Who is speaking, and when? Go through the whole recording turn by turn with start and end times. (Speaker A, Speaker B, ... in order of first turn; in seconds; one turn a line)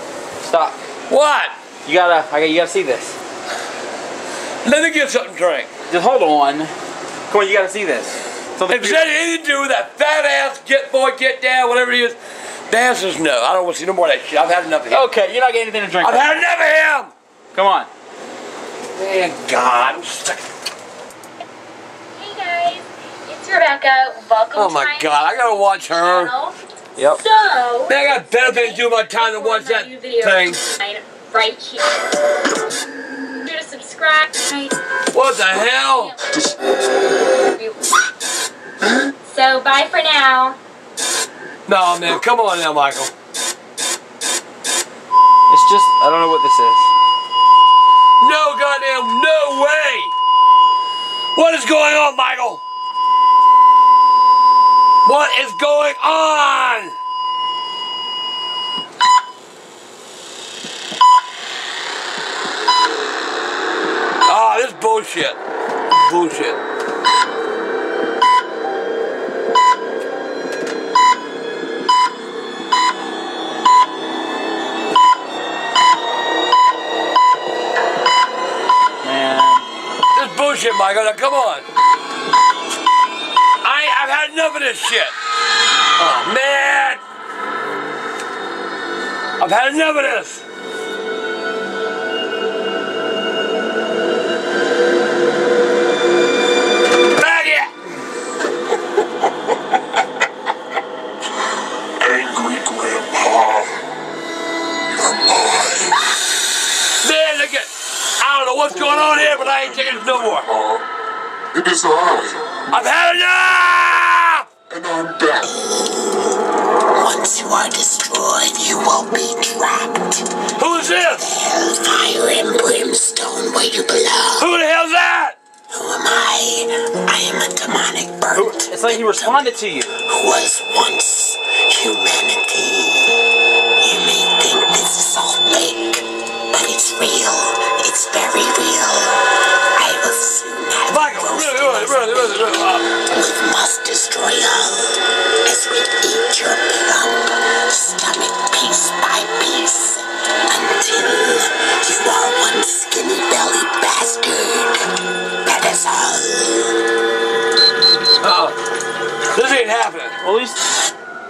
Speaker A: 0.4-0.8
Speaker B: 1.1-1.6
Speaker A: 1.8-3.2
Speaker B: 4.6-5.7
Speaker A: 5.9-6.7
Speaker A: 7.3-9.0
Speaker B: 8.7-12.2
Speaker B: 12.7-15.1
Speaker A: 14.9-16.3
Speaker B: 16.0-17.1
Speaker A: 17.5-17.9
Speaker B: 18.9-20.5
Speaker C: 22.1-26.6
Speaker B: 24.5-26.3
Speaker C: 27.1-31.8
Speaker B: 27.9-30.6
Speaker C: 33.4-34.8
Speaker B: 35.1-36.1
Speaker C: 35.9-36.2
Speaker D: 36.3-36.8
Speaker C: 37.5-38.0
Speaker C: 39.3-40.6
Speaker B: 41.7-43.1
Speaker A: 45.5-46.9
Speaker B: 48.2-50.1
Speaker B: 51.4-52.6
Speaker B: 55.0-56.9
Speaker B: 64.3-65.4
Speaker B: 66.0-66.6
Speaker A: 79.0-79.7
Speaker B: 80.2-81.7
Speaker B: 83.6-85.2
Speaker B: 86.0-87.0
Speaker B: 89.4-90.4
Speaker B: 97.2-97.7
Speaker D: 102.0-103.8
Speaker D: 104.9-106.0
Speaker B: 107.0-110.5
Speaker D: 109.0-110.8
Speaker D: 111.5-113.1
Speaker B: 112.7-114.5
Speaker D: 114.7-115.6
Speaker E: 115.5-120.3
Speaker B: 120.6-121.3
Speaker E: 120.8-124.5
Speaker B: 124.4-125.4
Speaker E: 125.7-133.3
Speaker A: 128.3-130.0
Speaker E: 133.8-154.9
Speaker B: 140.9-142.9
Speaker E: 155.4-156.8
Speaker B: 158.2-158.6
Speaker B: 159.3-160.2
Speaker A: 160.2-160.6